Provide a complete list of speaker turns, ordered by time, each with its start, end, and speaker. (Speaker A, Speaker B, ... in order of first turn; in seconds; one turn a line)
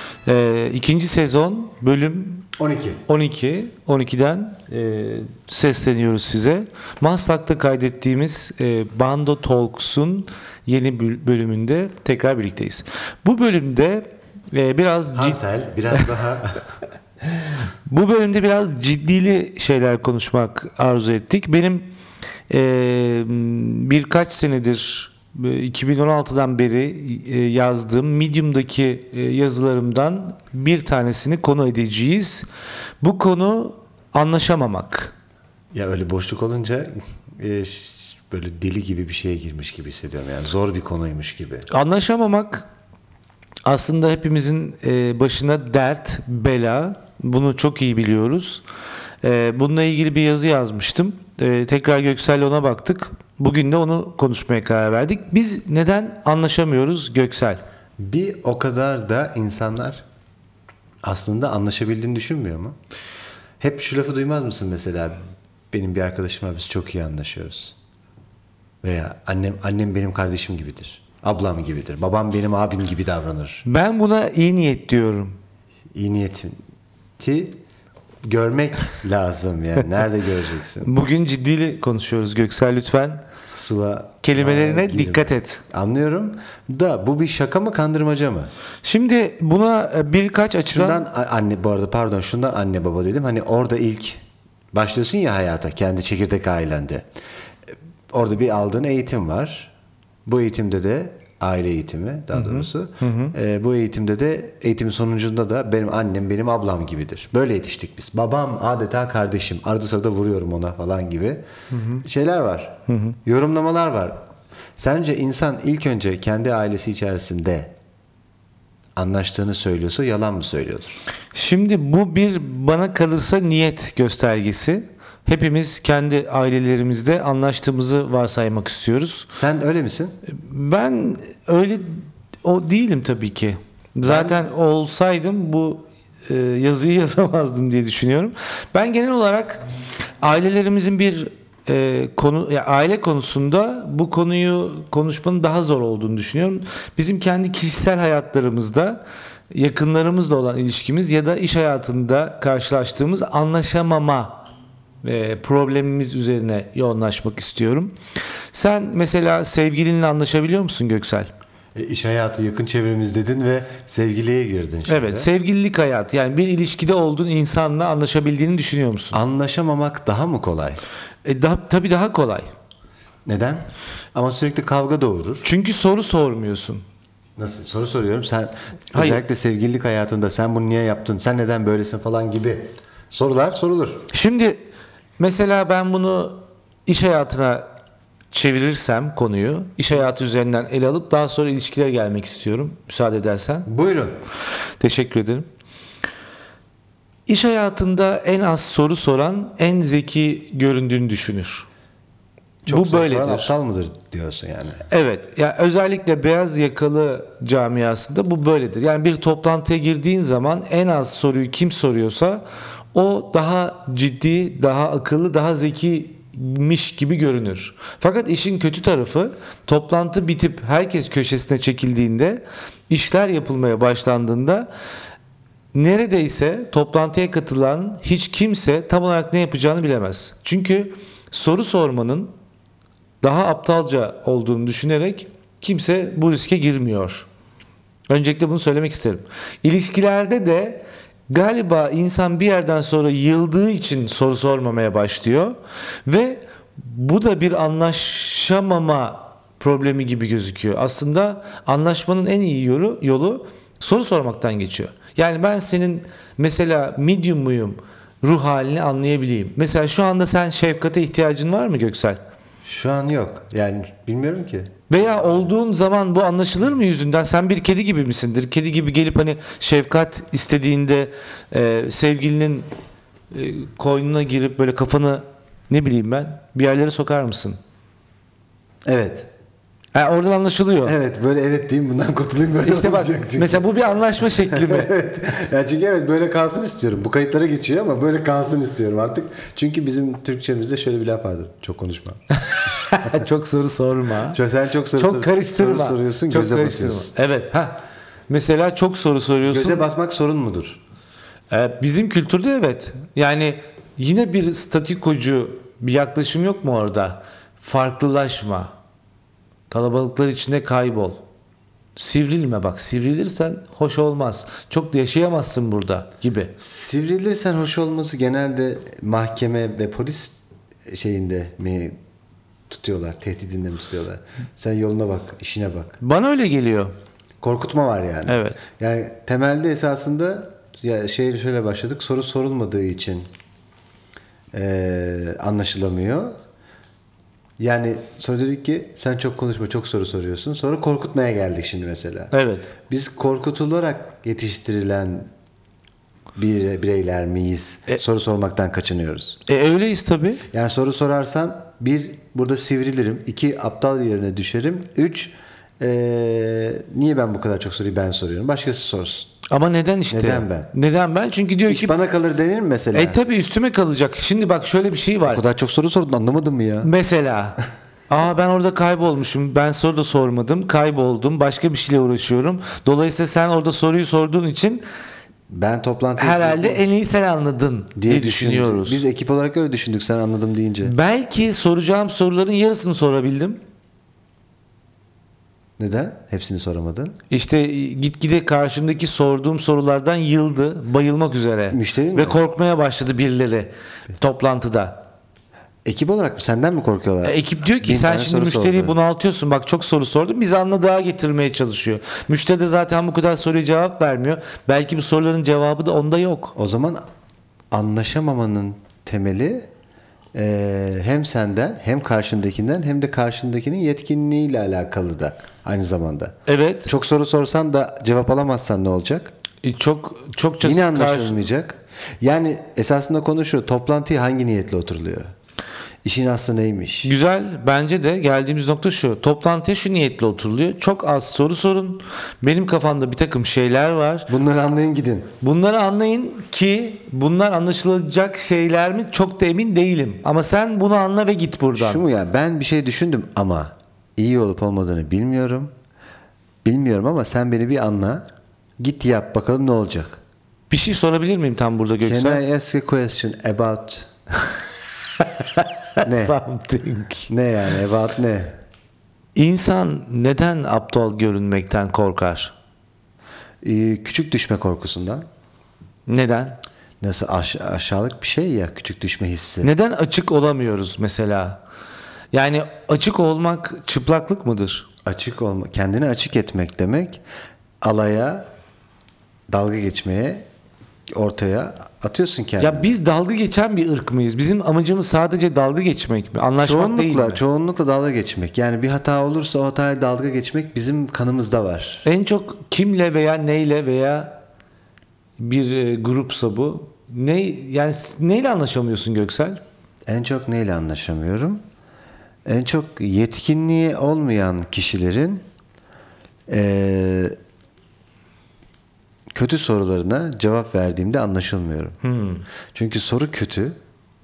Speaker A: 0.2-2.5
Speaker B: 2.6-3.0
Speaker A: 3.0-15.4
Speaker B: 15.1-16.6
Speaker A: 17.9-21.9
Speaker A: 22.5-32.4
Speaker A: 33.0-35.1
Speaker B: 35.7-41.7
Speaker A: 41.7-42.6
Speaker A: 43.6-48.6
Speaker A: 49.2-57.6
Speaker B: 58.0-60.0
Speaker B: 61.0-62.7
Speaker B: 63.6-65.2
Speaker B: 65.7-67.7
Speaker B: 68.8-73.6
Speaker A: 73.7-75.4
Speaker B: 75.9-76.6
Speaker B: 77.2-77.6
Speaker B: 78.2-80.9
Speaker A: 80.8-83.2
Speaker B: 83.5-88.5
Speaker A: 84.2-85.6
Speaker A: 88.8-91.0
Speaker B: 90.7-94.2
Speaker B: 94.7-97.0
Speaker B: 98.1-99.7
Speaker B: 100.2-111.4
Speaker A: 102.3-103.3
Speaker A: 111.7-112.0
Speaker B: 112.0-114.2
Speaker A: 112.9-113.2
Speaker B: 114.8-117.7
Speaker B: 119.0-121.0
Speaker A: 121.3-129.3
Speaker B: 129.3-130.2
Speaker A: 130.3-139.6
Speaker B: 134.0-134.5
Speaker A: 140.2-154.4
Speaker A: 155.0-157.9
Speaker A: 158.5-161.3
Speaker B: 161.7-165.3
Speaker A: 164.9-169.2
Speaker B: 169.1-170.8
Speaker A: 171.2-172.5
Speaker B: 173.2-173.6
Speaker B: 174.1-175.5
Speaker A: 175.4-176.8
Speaker B: 177.4-184.1
Speaker A: 178.9-179.2
Speaker A: 184.1-184.6
Speaker A: 185.2-187.6
Speaker A: 188.3-193.7
Speaker B: 193.7-194.1
Speaker A: 194.8-195.5
Speaker A: 197.3-201.7
Speaker B: 202.6-204.8
Speaker A: 202.7-203.5
Speaker A: 204.9-224.7
Speaker A: 225.7-232.3
Speaker A: 233.2-237.2
Speaker A: 238.1-262.2
Speaker B: 262.6-264.7
Speaker A: 264.9-272.7
Speaker A: 273.3-277.6
Speaker B: 278.9-279.3
Speaker A: 279.9-280.9
Speaker B: 280.8-283.7
Speaker A: 282.6-285.1
Speaker B: 284.5-292.2
Speaker A: 292.4-294.4
Speaker B: 294.3-297.1
Speaker A: 294.9-299.9
Speaker B: 299.4-300.8
Speaker A: 301.5-308.7
Speaker A: 309.7-311.2
Speaker A: 311.9-316.5
Speaker B: 316.6-321.9
Speaker B: 322.7-326.0
Speaker A: 326.0-326.9
Speaker B: 327.4-333.2
Speaker A: 328.3-328.6
Speaker B: 334.5-336.3
Speaker B: 337.6-342.3
Speaker A: 342.3-342.7
Speaker B: 342.9-345.3
Speaker B: 346.4-349.4
Speaker A: 349.4-350.4
Speaker B: 350.5-359.3
Speaker A: 359.5-361.9
Speaker B: 360.1-360.7
Speaker B: 361.7-363.2
Speaker A: 362.9-365.4
Speaker B: 365.2-366.9
Speaker A: 366.8-367.6
Speaker A: 368.1-374.8
Speaker B: 375.5-376.9
Speaker A: 376.2-379.0
Speaker B: 377.9-380.9
Speaker A: 380.8-383.6
Speaker B: 385.8-387.1
Speaker A: 387.3-395.0
Speaker B: 391.7-392.4
Speaker B: 395.8-399.0
Speaker A: 397.2-406.5
Speaker B: 406.6-407.0
Speaker B: 407.7-409.7
Speaker B: 410.3-419.3
Speaker A: 416.5-416.9
Speaker A: 419.6-421.4
Speaker B: 420.6-425.3
Speaker B: 426.0-427.1
Speaker A: 427.0-434.3
Speaker B: 434.3-435.3
Speaker A: 435.4-442.0
Speaker B: 441.8-445.7
Speaker B: 446.6-448.2
Speaker B: 448.8-450.2
Speaker A: 450.7-452.4
Speaker B: 452.0-454.1
Speaker A: 455.2-457.3
Speaker B: 456.0-456.4
Speaker B: 457.3-458.6
Speaker A: 459.3-462.5
Speaker B: 463.6-465.2
Speaker A: 466.1-466.6
Speaker B: 467.0-469.7
Speaker A: 469.6-471.6
Speaker A: 472.3-474.8
Speaker B: 475.1-477.2
Speaker B: 477.8-478.5
Speaker B: 479.5-480.4
Speaker B: 481.1-482.9
Speaker A: 482.6-487.4
Speaker B: 486.6-492.0
Speaker A: 492.0-494.4
Speaker A: 495.4-499.6
Speaker B: 500.1-501.6
Speaker B: 502.4-505.4
Speaker B: 506.5-507.3
Speaker B: 509.3-512.0
Speaker A: 512.0-512.4
Speaker B: 512.7-513.8